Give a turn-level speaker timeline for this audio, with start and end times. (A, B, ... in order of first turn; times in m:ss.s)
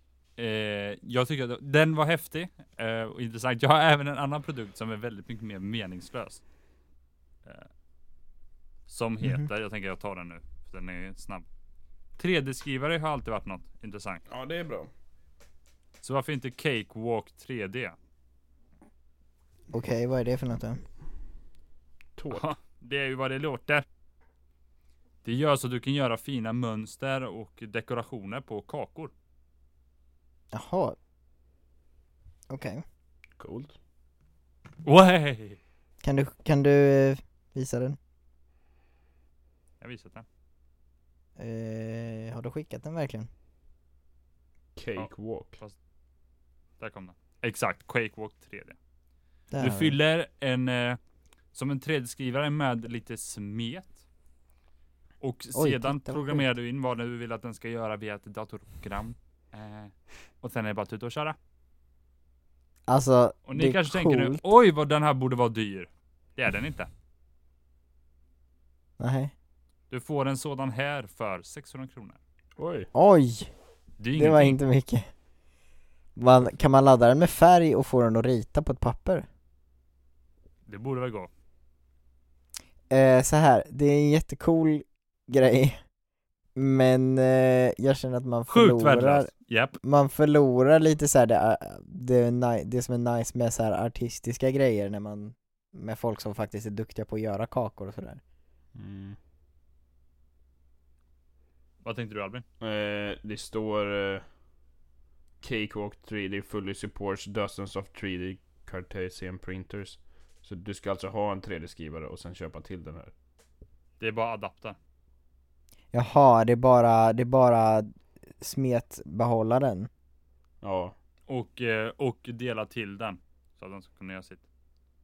0:00.4-0:06.4 A
0:08.9-0:11.4 A
0:12.2-0:14.2 A
0:14.3-0:14.9 B
0:16.0-0:17.9 A
0:19.7-0:20.8 C
0:22.2-0:22.4 B
0:22.3-0:23.8 A
0:25.2-0:29.1 A
0:30.5-0:31.0 C
0:32.5-0:32.8 C
0:33.4-0:33.8 B
0:34.8-0:35.6 A
0:36.0-0:38.0 C
0:39.8-0:40.2 A
0:41.4-0:43.3 C
0:44.8-0:45.6 B
0:45.0-0:45.8 A
0:46.8-0:48.8 A
0:49.5-0:50.0 C
0:49.6-0:51.0 A
0:51.5-0:54.0 A
0:55.2-1:01.4 A
0:55.5-0:56.4 C
1:02.9-1:04.4 C
1:03.5-1:06.9 A
1:09.0-1:09.3 C
1:09.9-1:12.2 A
1:12.6-1:12.9 B
1:12.9-1:13.5 C
1:14.0-1:14.6 A
1:14.2-1:15.0 C
1:16.2-1:19.2 C
1:20.7-1:21.3 A
1:22.9-1:25.8 C
1:26.6-1:29.3 C
1:28.5-1:29.7 A
1:29.8-1:38.2 C
1:38.7-1:39.2 B
1:41.8-1:42.4 A
1:42.6-1:44.2 B
1:45.4-1:53.1 B
1:54.0-1:54.8 A
1:55.9-1:59.9 C
2:00.6-2:01.0 B
2:01.3-2:04.4 A